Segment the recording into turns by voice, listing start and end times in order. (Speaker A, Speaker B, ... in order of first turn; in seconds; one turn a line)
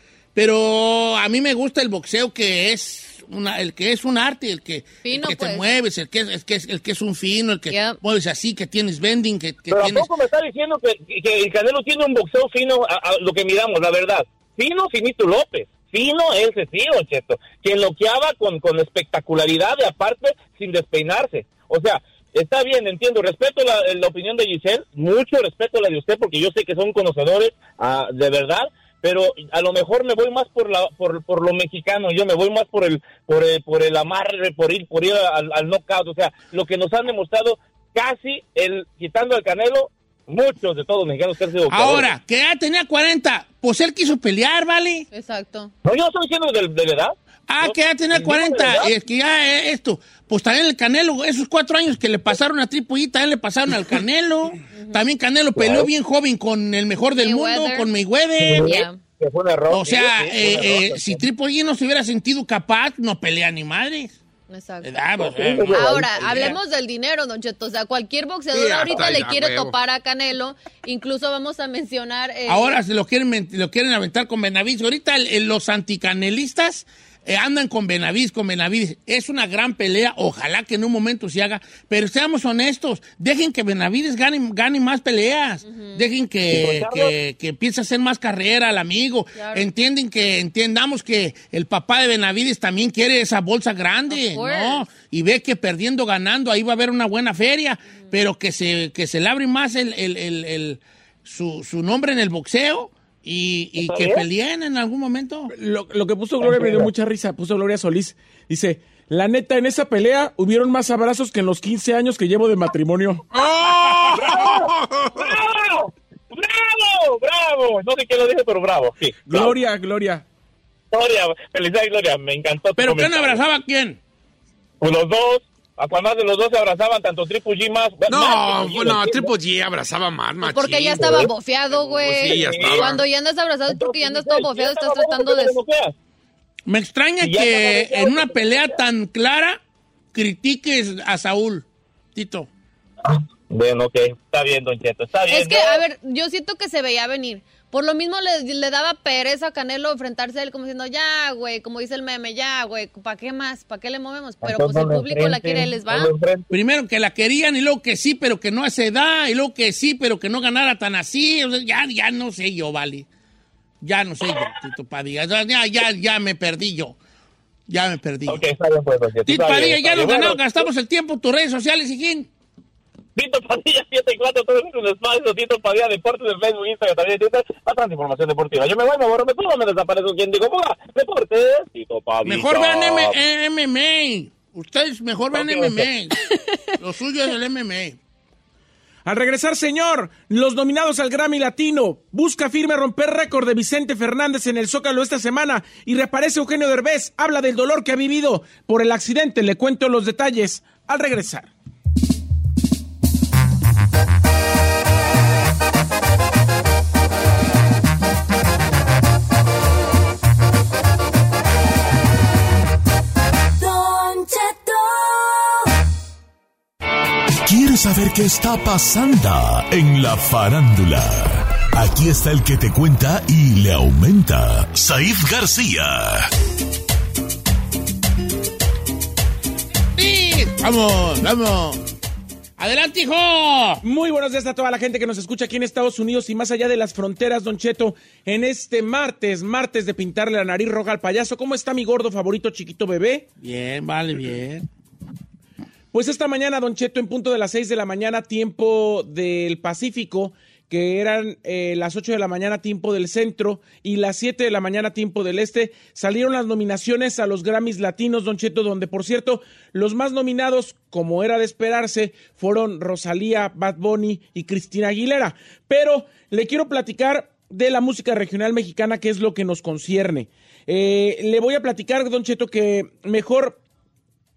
Speaker A: 0.3-10.1
Speaker B: 5.0-5.7
Speaker B: 7.7-8.0
Speaker C: 9.7-42.1
Speaker A: 41.7-45.1
Speaker B: 45.1-45.7
Speaker C: 45.8-48.9
Speaker A: 47.5-58.8
Speaker B: 54.7-55.0
Speaker C: 55.5-55.9
Speaker B: 57.2-57.9
Speaker C: 58.4-61.2
Speaker B: 58.6-59.0
Speaker A: 59.7-64.2
Speaker B: 64.5-64.9
Speaker A: 64.8-66.5
Speaker C: 65.2-66.5
Speaker B: 65.6-72.8
Speaker D: 68.5-69.7
Speaker A: 72.5-105.5
Speaker B: 85.6-86.0
Speaker C: 86.5-87.1
Speaker B: 89.3-89.7
Speaker B: 94.1-94.9
Speaker C: 103.8-104.2
Speaker E: 105.5-113.2
Speaker C: 106.4-106.9
Speaker D: 113.3-115.3
Speaker C: 114.1-119.5
Speaker E: 119.2-120.2
Speaker C: 120.9-123.4
Speaker A: 122.8-124.0
Speaker C: 124.8-129.3
Speaker D: 128.1-131.3
Speaker B: 130.4-135.6
Speaker C: 131.0-131.3
Speaker D: 132.0-133.0
Speaker C: 132.1-133.0
Speaker C: 133.7-135.9
Speaker A: 136.7-139.6
Speaker C: 137.2-138.8
Speaker A: 140.1-142.5
Speaker C: 143.0-145.8
Speaker B: 145.3-156.1
Speaker C: 154.4-156.5
Speaker A: 156.5-163.1
Speaker A: 163.8-166.9
Speaker A: 167.7-168.4
Speaker C: 168.3-170.7
Speaker A: 169.2-172.3
Speaker C: 173.2-183.2
Speaker A: 182.2-188.0
Speaker C: 185.3-185.9
Speaker E: 189.1-201.5
Speaker F: 213.6-215.6
Speaker G: 217.4-226.3
Speaker A: 229.9-231.8
Speaker A: 232.6-233.8
Speaker E: 233.8-243.3
Speaker A: 243.4-244.7
Speaker E: 245.9-273.6